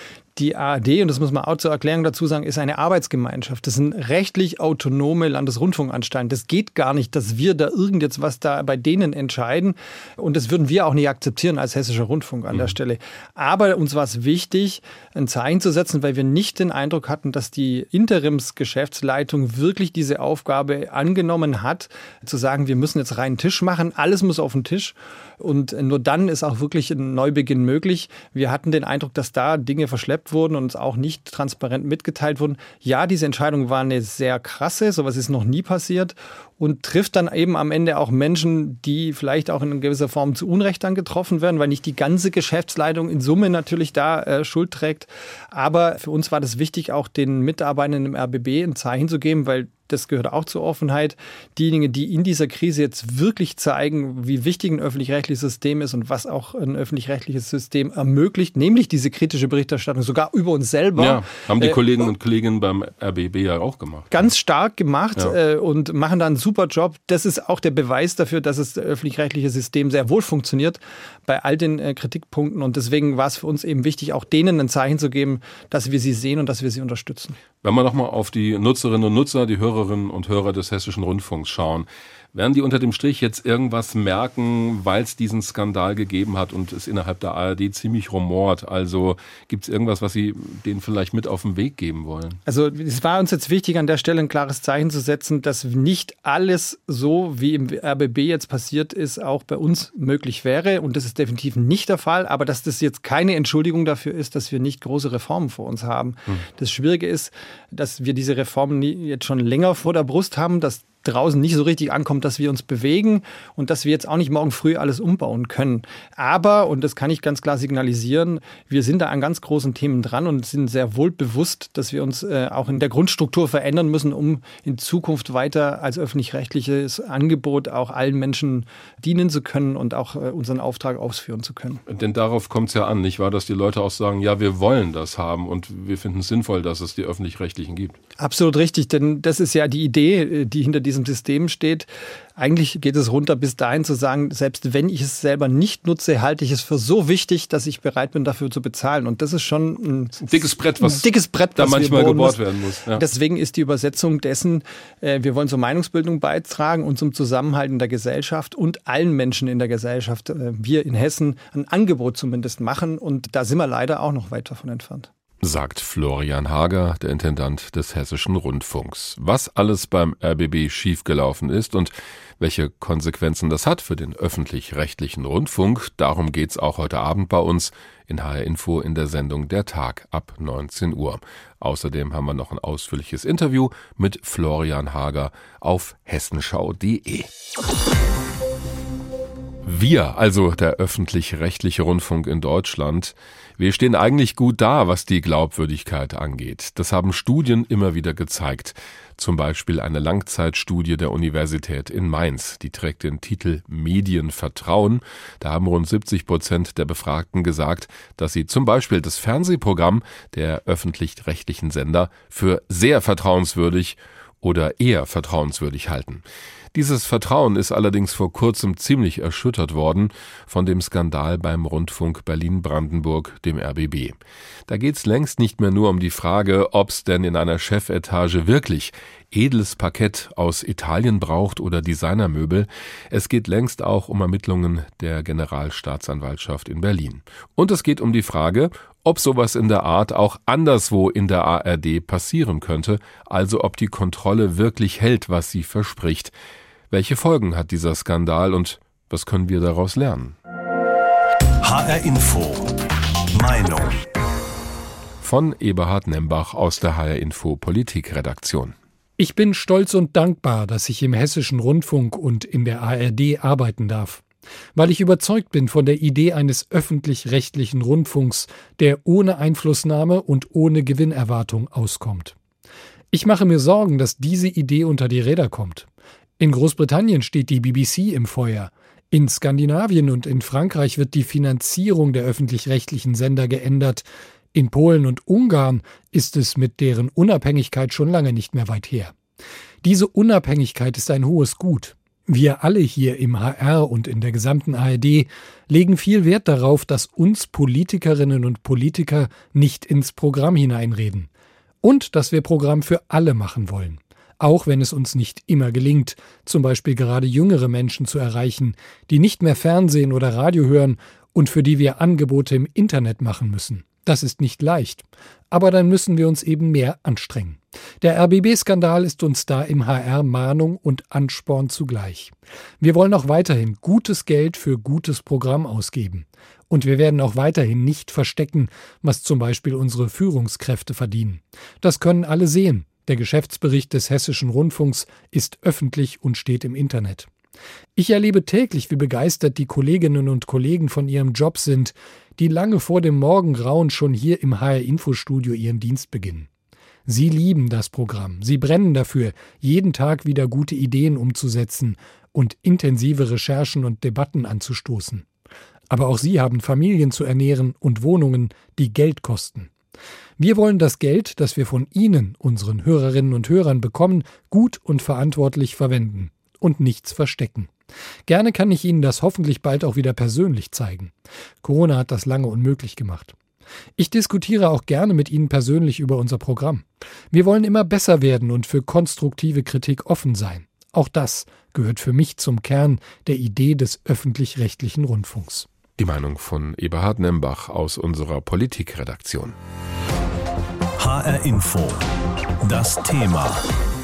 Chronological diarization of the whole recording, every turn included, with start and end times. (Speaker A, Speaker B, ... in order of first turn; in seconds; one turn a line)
Speaker A: 0.3-61.8
Speaker B: 12.5-12.8
Speaker B: 61.0-64.3
Speaker A: 64.1-77.4
Speaker B: 77.6-92.4
Speaker A: 92.5-131.8
Speaker B: 131.9-138.0
Speaker A: 138.2-152.4
Speaker B: 150.2-153.0
Speaker A: 152.9-165.1
Speaker B: 165.4-187.3
Speaker B: 189.6-224.1
Speaker B: 224.7-246.3
Speaker B: 246.9-250.3
Speaker C: 251.6-252.8
Speaker C: 253.3-254.0
Speaker B: 255.2-258.7
Speaker D: 259.2-264.2
Speaker D: 264.8-272.3
Speaker D: 273.1-275.9
Speaker D: 276.4-289.1
Speaker D: 289.8-301.3
Speaker D: 301.8-337.3
Speaker D: 337.9-346.5
Speaker D: 347.1-355.2
Speaker D: 355.9-359.7
Speaker D: 360.4-367.7
Speaker D: 368.3-373.3
Speaker D: 374.0-385.7
Speaker B: 386.0-389.6
Speaker C: 391.0-392.0
Speaker C: 392.6-393.6